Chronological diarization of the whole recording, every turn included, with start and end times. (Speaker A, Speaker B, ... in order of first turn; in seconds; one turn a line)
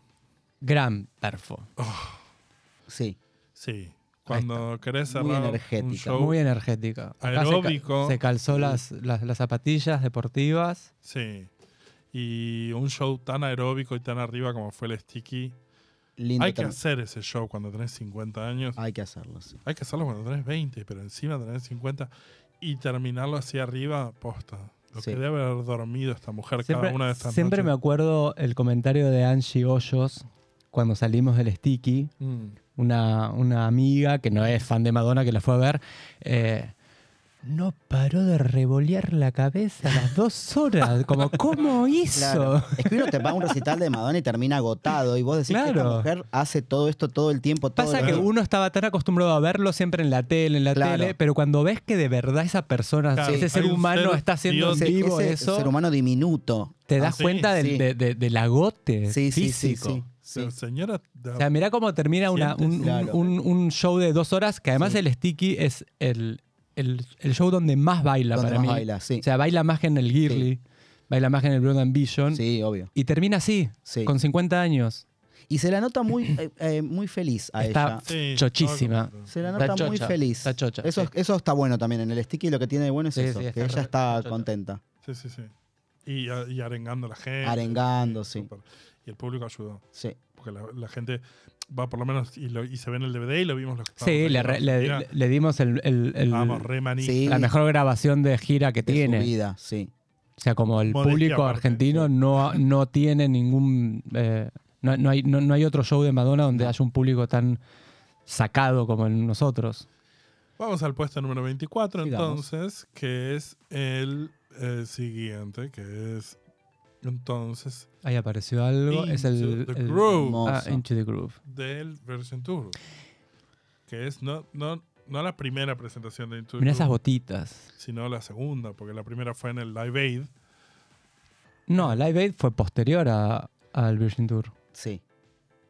Speaker A: 0.6-1.7
Speaker B: 1.8-2.2
Speaker C: 2.9-3.2
Speaker B: 3.5-6.4
Speaker A: 4.3-4.6
Speaker C: 5.1-6.2
Speaker A: 6.1-10.9
Speaker B: 7.2-8.2
Speaker C: 8.5-8.8
Speaker B: 11.0-11.5
Speaker B: 12.1-15.6
Speaker C: 16.2-16.8
Speaker B: 16.4-18.8
Speaker C: 18.8-19.6
Speaker B: 19.6-27.7
Speaker A: 26.6-32.1
Speaker B: 32.2-32.5
Speaker A: 32.8-36.7
Speaker A: 37.4-43.2
Speaker C: 42.1-48.3
Speaker A: 45.5-46.1
Speaker A: 47.8-55.7
Speaker B: 48.0-48.3
Speaker C: 50.7-51.1
Speaker B: 53.1-54.9
Speaker C: 54.7-56.9
Speaker A: 56.9-60.0
Speaker B: 57.0-57.5
Speaker C: 57.5-57.8
Speaker C: 59.1-60.5
Speaker B: 60.3-61.5
Speaker A: 61.4-75.0
Speaker B: 62.3-63.3
Speaker C: 62.8-63.2
Speaker C: 68.3-69.2
Speaker C: 72.3-72.9
Speaker C: 73.8-74.1
Speaker C: 75.5-78.0
Speaker A: 77.6-81.1
Speaker B: 78.0-80.1
Speaker C: 79.3-84.8
Speaker A: 83.1-84.5
Speaker B: 85.0-85.5
Speaker B: 86.0-89.8
Speaker C: 87.4-88.5
Speaker B: 90.4-95.1
Speaker A: 94.0-96.7
Speaker B: 96.3-97.3
Speaker C: 97.0-97.5
Speaker A: 97.2-99.3
Speaker C: 98.8-99.9
Speaker A: 100.4-107.6
Speaker B: 100.8-102.1
Speaker A: 108.2-109.8
Speaker B: 110.6-116.4
Speaker C: 112.0-112.4
Speaker B: 117.0-117.9
Speaker A: 118.0-121.4
Speaker B: 118.9-120.4
Speaker C: 120.1-120.8
Speaker B: 121.4-122.8
Speaker B: 123.9-127.0
Speaker A: 126.6-127.7
Speaker B: 127.8-130.3
Speaker A: 131.7-134.5
Speaker C: 134.7-135.0